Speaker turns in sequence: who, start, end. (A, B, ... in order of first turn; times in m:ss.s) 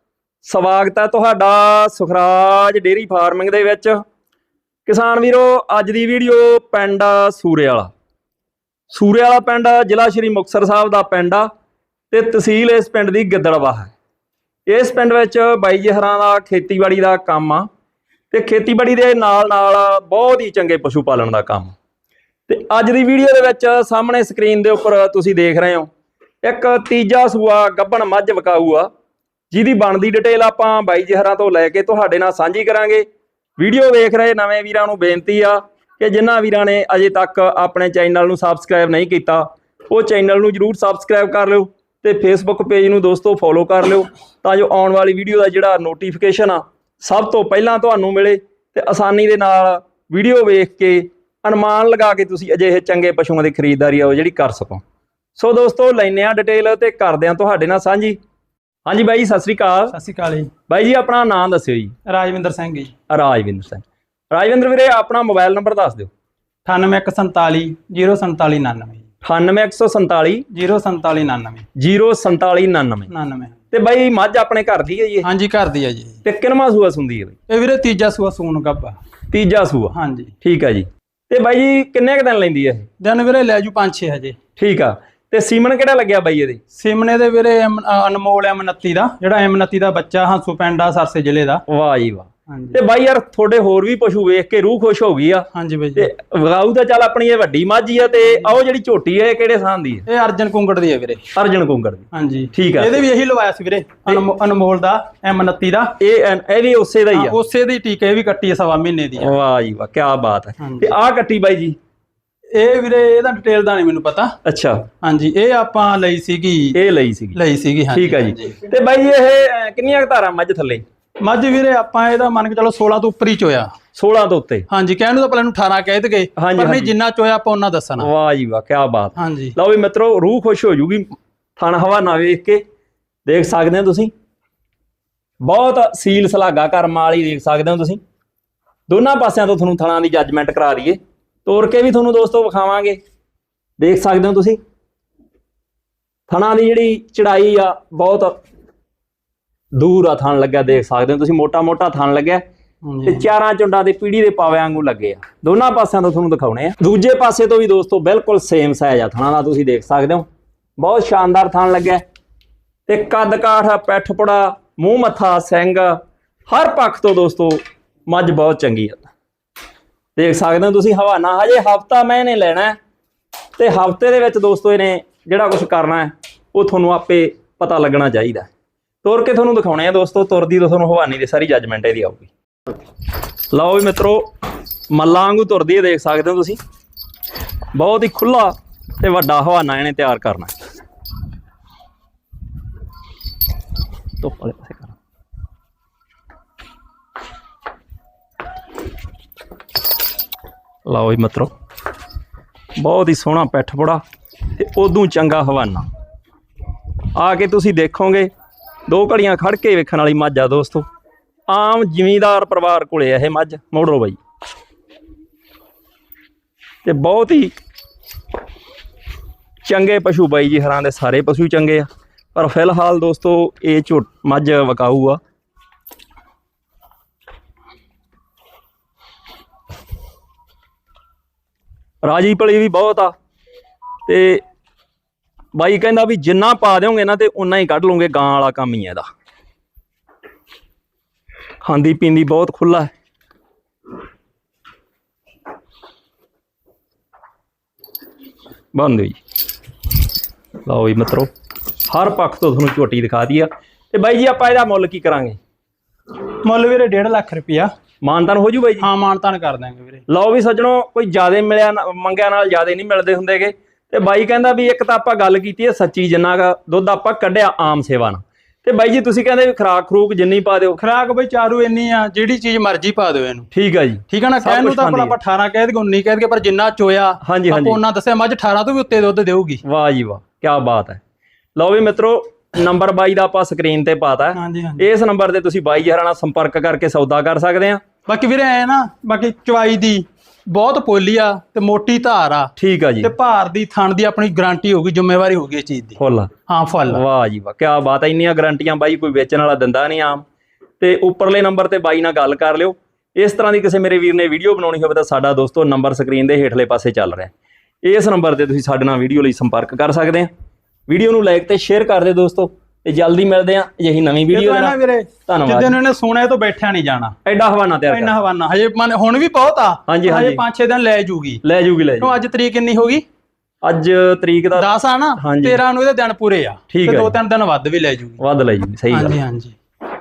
0:00.4-0:04.0 A
0:04.9-0:07.9 A
0:08.9-0:11.5 A
0:12.1-0:13.9 A
0:14.7-0:17.7 A
0:18.3-0:21.7 A
0:22.5-0:25.9 A
0:26.4-0:28.9 A
0:29.5-0:33.0 A
0:33.6-0:54.8 A
0:55.4-0:58.2 A
0:58.9-1:00.0 A
0:59.9-1:00.5 B
1:00.7-1:01.9 A
1:02.1-1:02.9 B
1:03.1-1:06.1 A
1:06.6-1:09.0 B
1:09.2-1:10.5 A
1:10.5-1:11.7 B
1:11.8-1:13.1 A
1:13.1-1:13.6 B
1:13.7-1:15.3 A
1:15.2-1:16.2 B
1:16.2-1:17.4 A
1:17.5-1:19.0 B
1:19.3-1:22.9 A
1:19.9-1:20.3 B
1:23.0-1:24.4 B
1:24.6-1:26.6 A
1:26.7-1:31.6 B
1:31.7-1:40.1 A
1:32.5-1:32.8 B
1:35.5-1:36.1 B
1:40.1-1:41.3 B
1:41.3-1:43.0 A
1:42.1-1:46.0 B
1:46.0-1:47.4 A
1:47.1-1:49.3 B
1:49.2-1:51.8 A
1:50.6-1:50.8 B
1:52.5-1:54.4 B
1:54.4-1:54.9 A
1:55.0-1:56.8 B
1:56.8-1:57.4 A
1:57.3-1:58.6 B
1:57.9-2:00.8 A
2:01.2-2:03.7 B
2:04.0-2:04.7 A
2:04.7-2:08.1 B
2:06.4-2:06.9 A
2:08.0-2:12.6 A
2:09.2-2:09.6 B
2:13.3-2:14.1 A
2:15.4-2:18.0 A
2:18.9-2:23.0 A
2:23.8-2:24.6 A
2:26.3-2:28.4 A
2:29.8-2:32.4 A
2:32.8-2:33.3 B
2:33.1-2:40.3 A
2:40.8-2:42.0 A
2:42.9-2:49.1 A
2:50.2-2:52.8 A
2:53.6-2:58.5 A
2:59.0-3:02.3 A
3:03.5-3:04.3 A
3:04.9-3:06.6 A
3:07.7-3:10.5 A
3:14.2-3:15.0 A
3:20.9-3:21.5 A
3:22.8-3:24.0 A
3:24.5-3:25.9 A
3:27.2-3:28.3 A
3:28.9-3:30.9 A
3:31.5-3:34.2 A
3:36.8-3:37.5 A
3:39.6-3:45.2 A
3:52.0-3:53.2 A
3:54.1-3:54.4 A
3:55.5-3:59.1 A
4:01.6-4:02.9 A
4:08.7-4:09.2 A
4:10.7-4:11.3 A
4:11.9-4:15.4 A
4:16.4-4:17.7 B
4:18.0-4:18.9 A
4:18.8-4:20.0 B
4:20.1-4:30.8 A
4:30.8-4:33.5 B
4:33.5-4:35.2 A
4:34.1-4:39.6 B
4:37.2-4:37.8 A
4:39.6-4:41.0 A
4:41.6-4:47.8 A
4:44.4-4:44.9 B
4:48.1-4:57.0 B
4:52.6-4:53.1 A
4:56.0-4:56.3 A
4:56.9-5:00.2 A
5:00.8-5:07.3 A
5:07.8-5:10.3 A
5:10.9-5:14.8 A
5:14.3-5:17.2 B
5:15.3-5:15.8 A
5:17.2-5:18.1 A
5:17.9-5:21.4 B
5:19.9-5:20.4 A
5:21.4-5:22.2 A
5:22.0-5:23.0 B
5:23.6-5:25.6 A
5:24.6-5:28.2 B
5:26.7-5:27.2 A
5:28.2-5:29.1 A
5:28.9-5:29.5 B